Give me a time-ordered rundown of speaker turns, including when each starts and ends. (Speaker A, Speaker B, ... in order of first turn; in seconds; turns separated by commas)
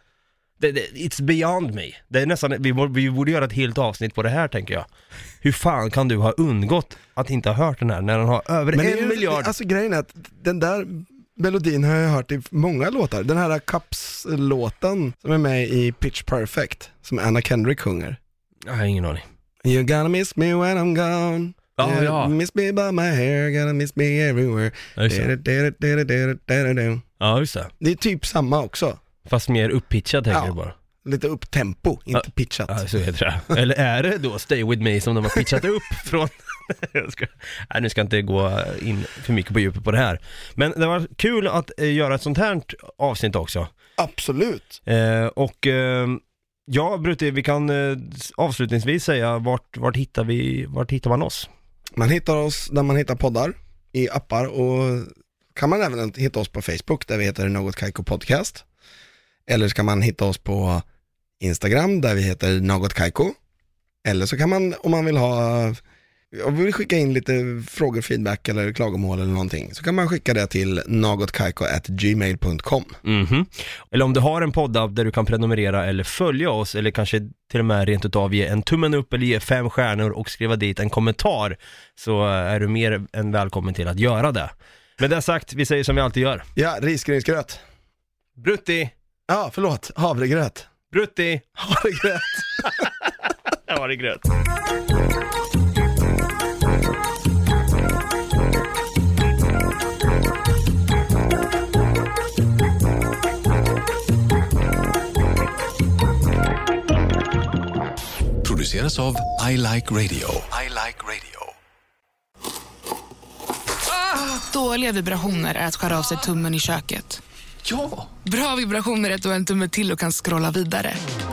Speaker A: 0.6-4.9, Speaker A: 5.4-9.5, Speaker B: 8.7-18.2, Speaker A: 18.7-19.2, Speaker B: 19.6-27.0, Speaker A: 21.8-22.4, Speaker A: 25.0-25.3, Speaker A: 27.2-27.7, Speaker B: 27.8-29.0, Speaker A: 29.3-30.7, Speaker B: 30.3-32.9, Speaker A: 32.1-43.7, Speaker B: 44.0-44.8, Speaker A: 44.9-51.5, Speaker B: 52.0-58.6, Speaker B: 59.5-60.9, Speaker B: 61.4-63.4, Speaker B: 64.0-73.0, Speaker A: 73.0-86.5, Speaker B: 86.6-87.6, Speaker A: 88.4-88.9, Speaker B: 89.3-90.7, Speaker A: 90.9-91.5, Speaker B: 91.6-92.8, Speaker A: 93.5-94.3, Speaker C: 108.4-111.5, Speaker D: 114.4-117.2, Speaker C: 117.7-118.1, Speaker D: 118.2-121.0